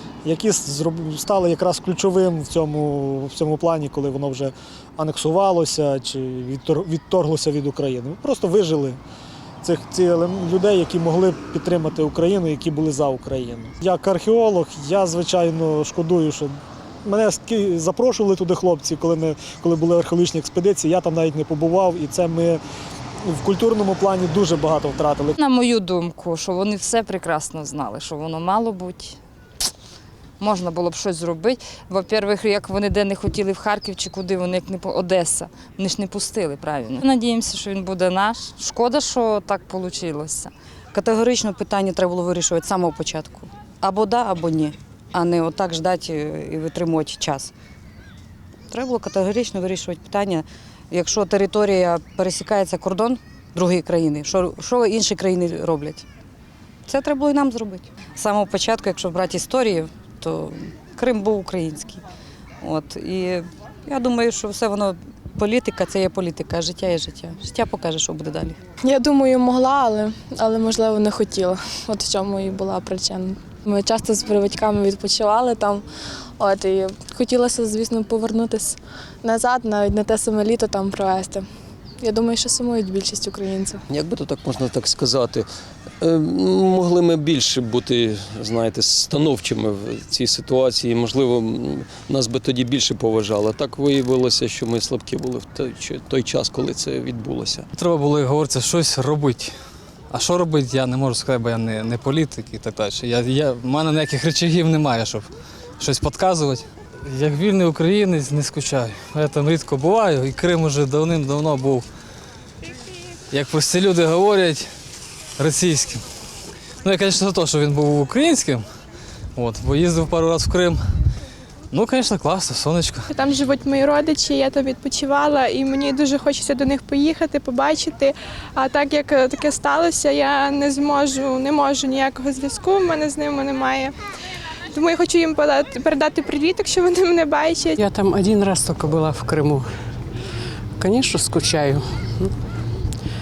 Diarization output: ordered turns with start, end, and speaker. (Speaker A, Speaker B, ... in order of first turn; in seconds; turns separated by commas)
Speaker A: 0.2-9.0, Speaker A: 9.6-16.5, Speaker A: 17.0-22.6, Speaker A: 23.2-25.4, Speaker B: 25.4-29.2, Speaker B: 30.4-40.5, Speaker C: 40.9-47.5, Speaker C: 48.7-56.0, Speaker C: 56.9-62.0, Speaker C: 62.6-68.6, Speaker D: 68.8-75.8, Speaker D: 76.4-81.5, Speaker D: 82.0-83.8, Speaker E: 83.9-85.5, Speaker E: 86.0-97.7, Speaker F: 97.8-99.5, Speaker F: 100.1-105.3, Speaker F: 105.8-111.9, Speaker F: 113.3-114.7, Speaker F: 115.4-116.0, Speaker F: 116.8-118.7, Speaker F: 119.4-120.8, Speaker F: 121.7-123.1, Speaker G: 123.1-133.9, Speaker G: 134.7-137.7, Speaker H: 137.8-139.7, Speaker H: 140.8-142.3